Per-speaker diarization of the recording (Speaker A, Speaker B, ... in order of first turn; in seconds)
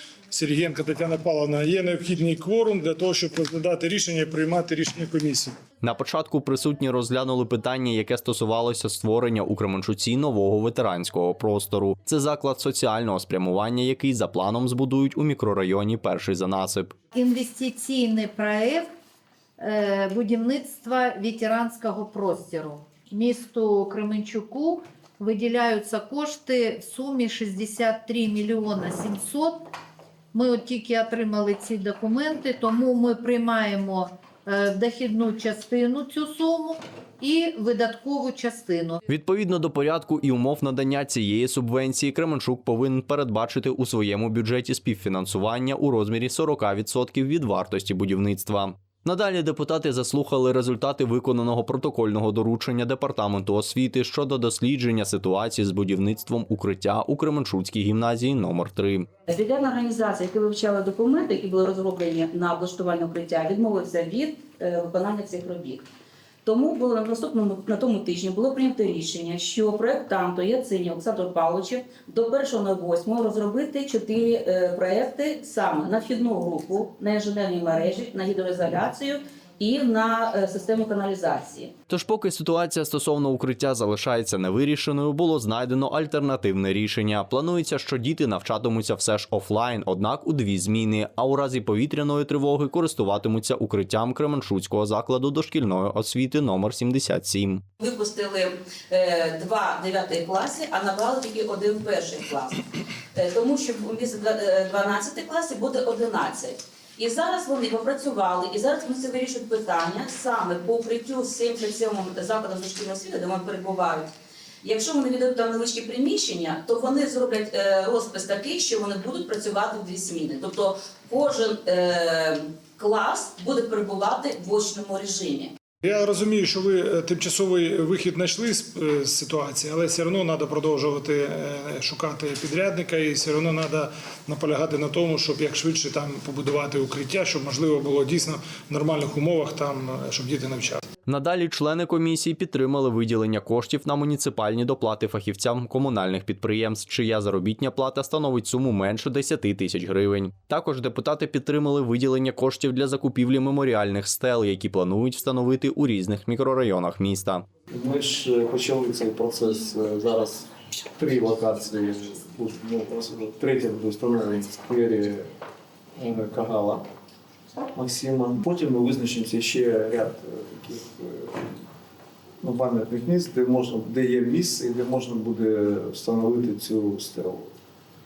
Speaker A: 0.3-5.5, 125.8-140.8
Speaker B: 5.8-16.9, 39.1-59.1, 81.9-97.6, 141.1-157.4
Speaker C: 17.1-18.9, 19.6-29.7, 30.3-39.0, 158.9-160.3, 161.0-163.4, 164.2-165.2, 166.0-166.8
Speaker D: 59.3-65.8, 66.4-81.7, 97.8-114.1, 114.6-125.5
Speaker E: 157.7-160.4, 161.4-165.1, 166.2-166.8, 167.8-171.3, 172.4-177.4